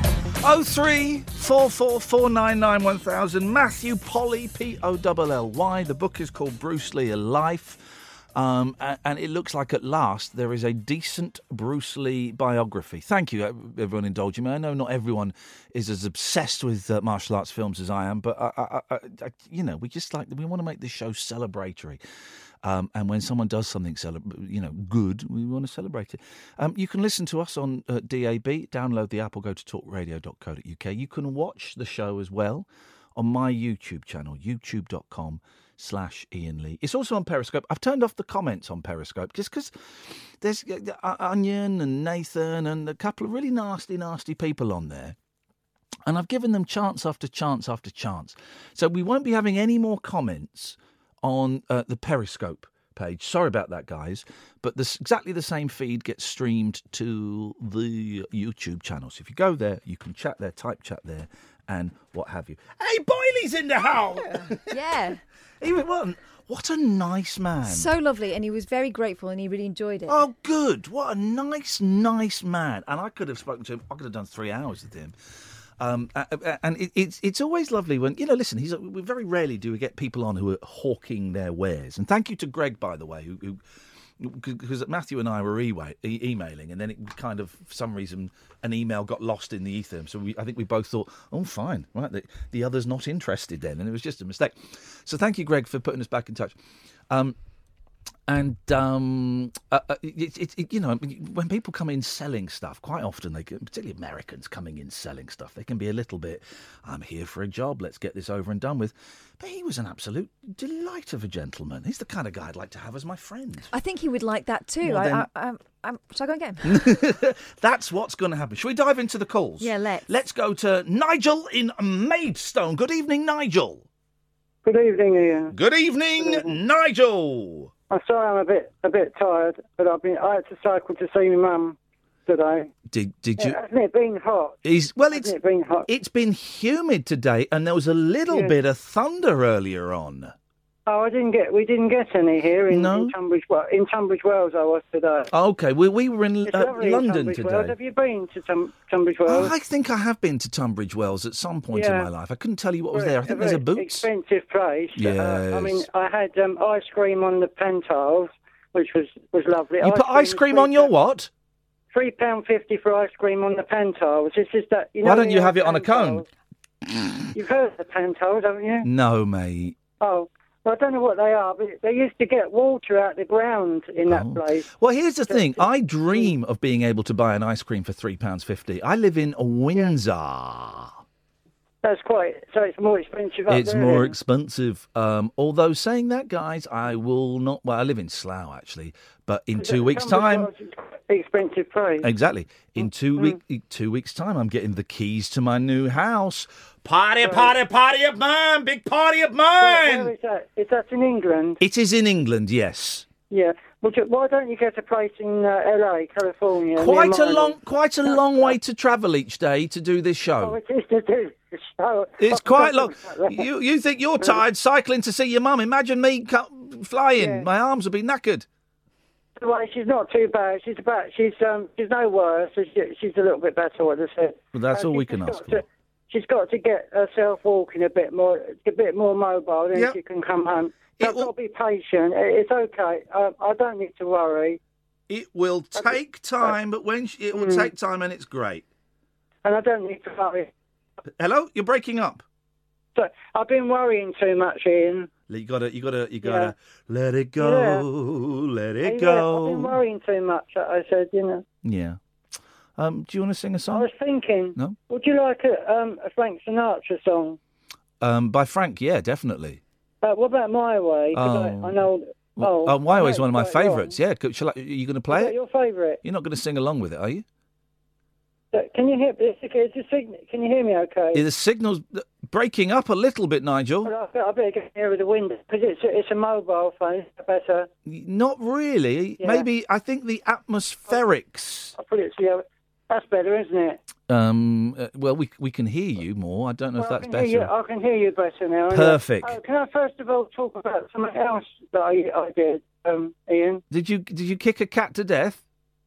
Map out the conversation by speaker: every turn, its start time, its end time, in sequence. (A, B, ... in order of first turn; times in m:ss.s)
0:00.4-0:22.0 A
0:22.6-0:39.7 A
0:40.4-0:45.2 A
0:46.0-1:04.7 A
1:04.2-1:05.2 B
1:05.6-1:07.9 A
1:07.6-1:10.2 B
1:10.1-1:15.1 A
1:15.8-1:23.6 A
1:24.2-1:36.6 A
1:37.1-1:37.4 A
1:38.3-1:53.7 A
1:53.7-1:57.0 B
1:54.8-1:55.3 A
1:56.6-2:03.8 A
1:59.6-2:00.1 B
2:04.6-2:05.5 C
2:05.5-2:07.7 A
2:06.2-2:06.5 C
2:07.9-2:12.7 C
2:12.9-2:13.6 A
2:13.4-2:14.6 C
2:14.6-2:15.3 A
2:15.1-2:15.9 C
2:15.9-2:20.3 A
2:18.3-2:18.5 C
2:20.9-2:25.3 C
2:22.7-2:23.1 A
2:25.3-2:27.7 A
2:26.5-2:29.5 C
2:29.2-2:34.1 A
2:31.7-2:32.1 C
2:32.9-2:40.9 C
2:35.0-2:35.8 A
2:39.8-2:41.3 A
2:41.9-2:46.2 C
2:45.0-2:46.2 A
2:46.9-2:47.3 A
2:47.3-2:48.9 C
2:48.8-2:49.8 A
2:50.0-2:54.6 C
2:54.0-3:01.0 A
2:55.3-2:56.3 C
3:01.8-3:04.1 C
3:03.5-3:10.5 A
3:09.6-3:12.1 C
3:12.0-3:20.1 A
3:17.2-3:17.5 C
3:19.6-3:21.6 C
3:21.6-3:23.0 A
3:23.3-3:28.6 C
3:26.7-3:30.6 A
3:30.4-3:33.5 C
3:32.2-3:38.4 A
3:37.2-3:37.4 C
3:39.4-3:54.6 C
3:44.5-3:45.6 A
3:50.9-3:51.3 A
3:55.1-3:58.6 A
3:55.8-3:56.5 C
3:57.3-3:57.7 C
3:59.4-4:00.5 C
4:01.2-4:02.2 A
4:03.0-4:05.1 C
4:05.3-4:09.8 A
4:06.2-4:06.5 C
4:07.4-4:07.8 C
4:08.8-4:11.4 C
4:11.6-4:12.0 A
4:12.8-4:13.9 A
4:13.7-4:17.4 C
4:18.0-4:19.6 A
4:20.0-4:23.9 C
4:21.1-4:21.8 A
4:22.4-4:25.3 A
4:25.1-4:26.0 C
4:26.0-4:27.2 A
4:28.5-4:31.2 C
4:31.1-4:33.9 A
4:33.8-4:37.7 C
4:37.8-4:41.7 A
4:39.2-4:39.4 C
4:41.8-4:43.8 C
4:44.1-4:47.5 A
4:46.8-4:53.6 C
4:48.7-4:49.4 A
4:53.7-4:55.4 A